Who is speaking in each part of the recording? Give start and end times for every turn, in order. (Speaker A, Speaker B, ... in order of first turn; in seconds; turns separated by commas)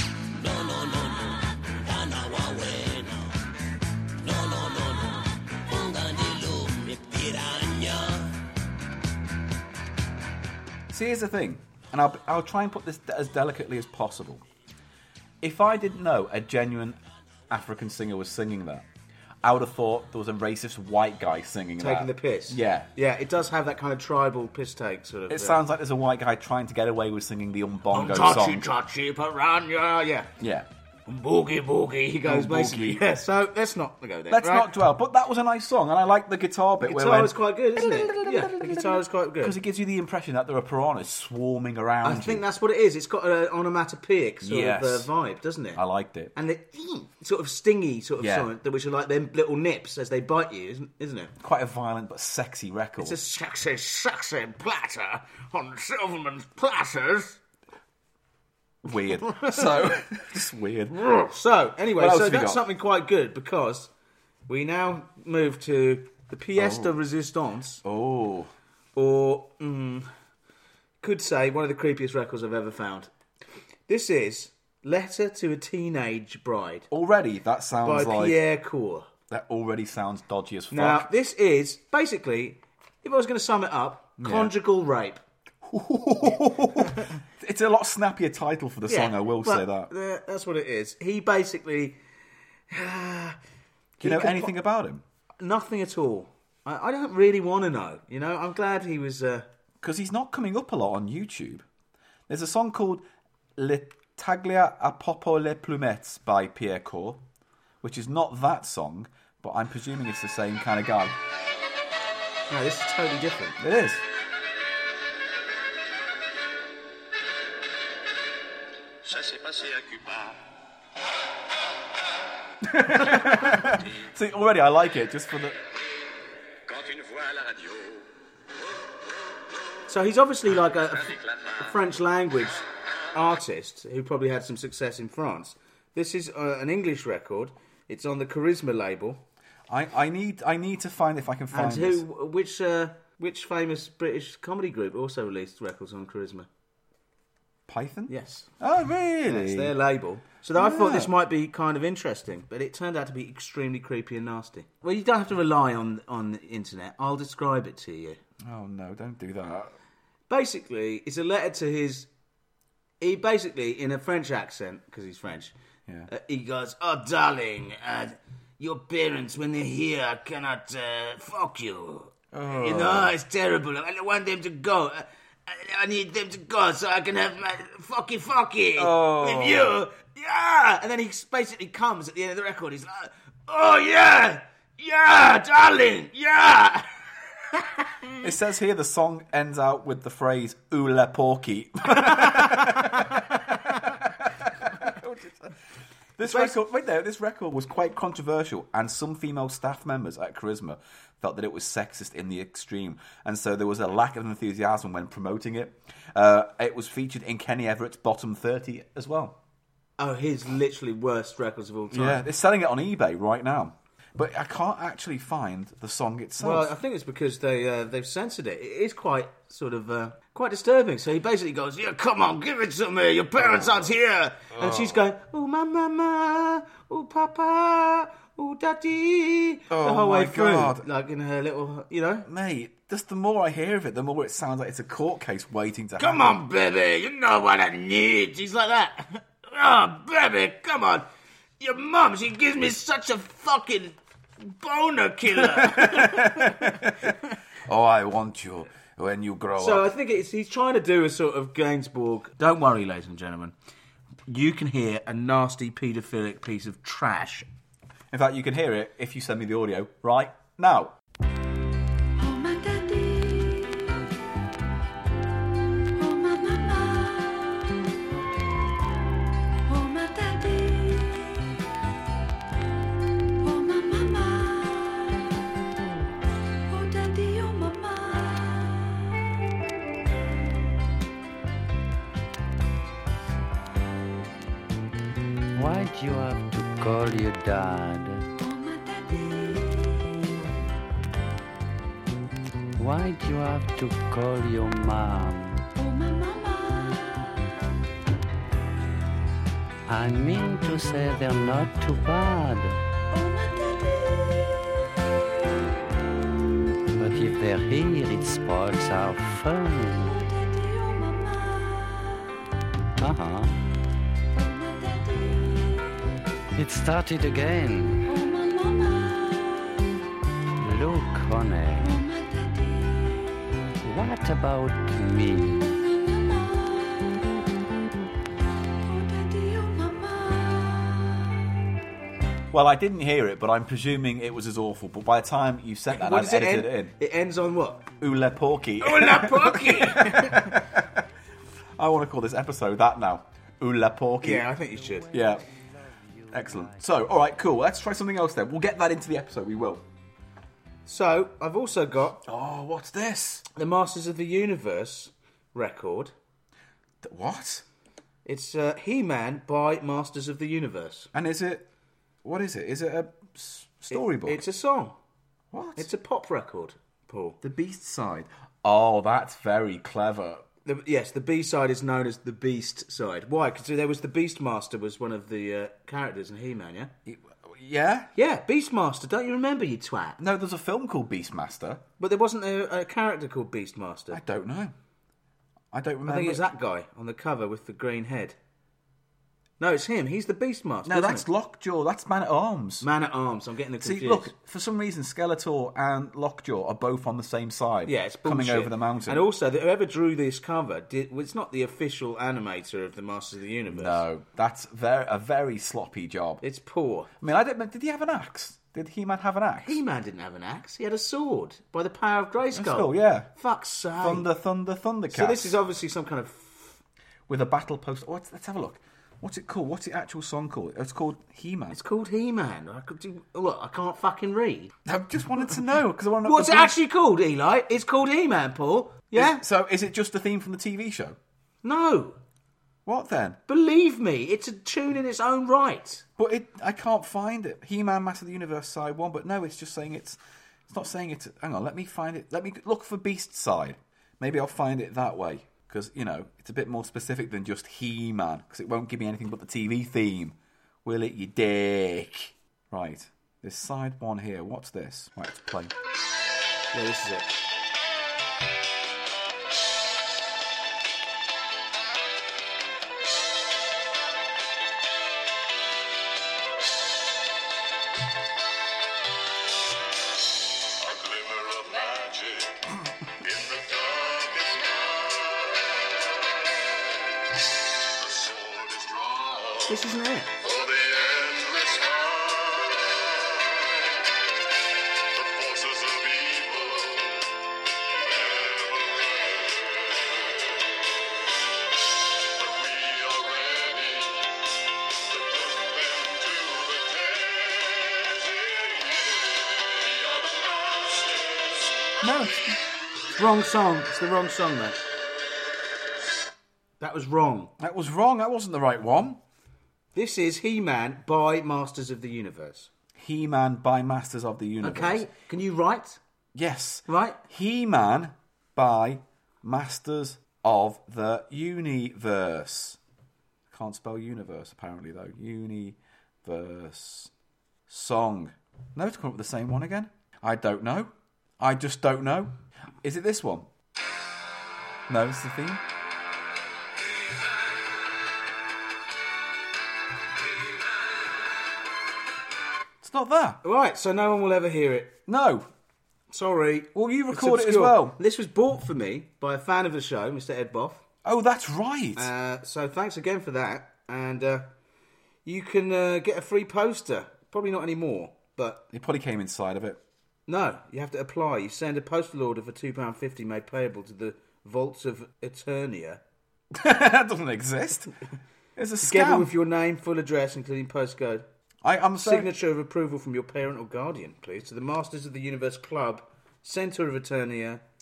Speaker A: 0.3-3.3, Speaker A: 4.2-8.3, Speaker B: 10.9-14.4, Speaker B: 15.4-17.0, Speaker B: 17.5-18.9, Speaker B: 19.4-22.9, Speaker C: 21.8-25.6, Speaker B: 25.3-28.7, Speaker C: 27.9-30.3, Speaker B: 30.4-30.7, Speaker C: 31.1-34.7, Speaker B: 32.2-33.0, Speaker B: 34.3-42.4, Speaker C: 36.8-39.6, Speaker C: 42.0-45.8, Speaker B: 44.4-45.1, Speaker B: 45.7-46.3, Speaker C: 46.3-51.3, Speaker B: 48.2-48.5, Speaker B: 51.4-53.2, Speaker C: 53.0-57.4, Speaker B: 58.8-61.0, Speaker C: 59.2-59.8, Speaker C: 60.9-63.9, Speaker B: 62.0-62.6, Speaker C: 64.5-67.8, Speaker B: 66.5-67.0, Speaker B: 67.8-68.5, Speaker C: 69.0-70.1, Speaker C: 71.0-73.1, Speaker C: 73.9-76.9, Speaker B: 76.9-78.4, Speaker C: 77.8-79.1, Speaker B: 79.3-81.1, Speaker C: 80.7-85.2, Speaker B: 84.2-84.5, Speaker B: 85.6-89.9, Speaker C: 88.9-92.0, Speaker C: 92.7-93.4, Speaker C: 94.0-94.5, Speaker B: 94.0-95.0, Speaker C: 95.4-99.5, Speaker B: 99.8-101.7, Speaker B: 102.3-103.0, Speaker B: 103.6-107.2, Speaker B: 107.8-111.2, Speaker C: 112.5-113.6, Speaker B: 113.6-114.0, Speaker A: 119.0-120.3, Speaker B: 122.6-125.6, Speaker A: 126.7-128.0, Speaker C: 129.9-139.2, Speaker B: 139.7-142.0, Speaker C: 141.5-146.5, Speaker B: 147.7-149.7, Speaker C: 148.1-148.5, Speaker C: 149.2-158.2, Speaker B: 150.5-151.1, Speaker B: 158.4-159.7, Speaker C: 160.3-162.1, Speaker C: 163.0-165.5, Speaker C: 166.1-188.1, Speaker B: 172.3-173.1, Speaker B: 178.8-179.8, Speaker B: 188.2-195.5, Speaker C: 192.2-193.2, Speaker B: 196.2-209.4, Speaker C: 196.3-196.6, Speaker C: 210.0-212.2, Speaker B: 211.9-216.7, Speaker C: 216.4-232.3, Speaker B: 223.5-223.7, Speaker B: 224.5-225.0, Speaker B: 229.7-230.8, Speaker B: 232.2-236.4, Speaker C: 236.0-241.1, Speaker C: 241.6-247.2, Speaker B: 245.4-247.1, Speaker B: 247.7-249.9, Speaker C: 249.6-253.5, Speaker C: 254.3-257.4, Speaker B: 258.1-260.9, Speaker D: 262.2-264.0, Speaker D: 265.9-267.7, Speaker D: 269.7-271.4, Speaker D: 273.4-275.3, Speaker D: 276.7-279.1, Speaker E: 285.5-288.2, Speaker D: 288.4-290.1, Speaker E: 292.8-295.6, Speaker D: 295.8-297.4, Speaker E: 299.9-302.8, Speaker D: 303.1-304.7, Speaker E: 306.9-310.1, Speaker D: 310.0-312.3, Speaker E: 313.0-313.6, Speaker D: 314.4-316.0, Speaker E: 316.6-318.0, Speaker D: 318.1-319.8, Speaker E: 320.6-321.9, Speaker D: 321.8-323.3, Speaker E: 323.8-325.6, Speaker D: 325.6-327.3, Speaker D: 328.8-331.2, Speaker B: 332.5-336.9, Speaker C: 335.9-337.8, Speaker B: 338.0-341.0, Speaker C: 338.8-340.5, Speaker B: 341.8-344.5, Speaker C: 344.2-345.1, Speaker E: 344.9-346.7, Speaker B: 345.1-345.4, Speaker B: 346.3-349.8, Speaker C: 350.9-352.2, Speaker B: 352.2-353.4, Speaker C: 353.5-356.1, Speaker B: 357.0-357.6, Speaker C: 358.2-361.1, Speaker B: 361.1-361.7, Speaker B: 362.2-364.4, Speaker C: 363.9-365.0, Speaker B: 365.5-365.9, Speaker C: 365.8-367.4, Speaker B: 367.4-370.4, Speaker C: 370.6-376.9, Speaker B: 377.1-378.1, Speaker C: 378.1-380.2, Speaker B: 380.2-381.8, Speaker C: 382.0-384.2, Speaker B: 384.1-384.7, Speaker B: 385.7-386.5, Speaker C: 386.1-388.4, Speaker C: 389.6-391.2, Speaker B: 390.8-392.9, Speaker C: 392.8-394.3, Speaker B: 393.8-399.2, Speaker C: 397.9-404.0, Speaker B: 403.7-406.4, Speaker C: 406.4-407.1, Speaker B: 407.2-409.8, Speaker C: 409.6-414.3, Speaker B: 412.5-413.3, Speaker B: 414.0-415.6, Speaker C: 415.1-416.8, Speaker B: 417.3-421.8, Speaker C: 421.7-424.7, Speaker B: 424.8-426.7, Speaker C: 426.2-429.4, Speaker B: 429.1-431.2, Speaker C: 431.6-432.2, Speaker B: 432.9-433.4, Speaker C: 433.5-436.0, Speaker B: 436.2-455.7, Speaker C: 456.7-457.4, Speaker C: 479.6-480.4, Speaker B: 502.0-502.6, Speaker C: 503.1-504.9, Speaker C: 506.8-507.5, Speaker B: 507.6-509.2, Speaker C: 509.9-512.7, Speaker B: 513.0-515.1, Speaker C: 514.6-516.0, Speaker B: 516.3-522.8, Speaker C: 516.9-517.2, Speaker B: 523.5-527.1, Speaker B: 527.7-533.5, Speaker B: 534.9-535.6, Speaker B: 542.8-543.4, Speaker C: 543.4-545.0, Speaker B: 545.1-545.5, Speaker C: 546.1-550.8, Speaker B: 546.7-548.0, Speaker B: 551.0-552.1, Speaker C: 552.0-554.5, Speaker C: 555.2-558.6, Speaker B: 558.7-559.8, Speaker C: 560.3-566.0, Speaker B: 566.5-567.9, Speaker B: 568.5-569.3, Speaker C: 568.8-571.2, Speaker B: 571.6-572.3, Speaker C: 572.0-577.6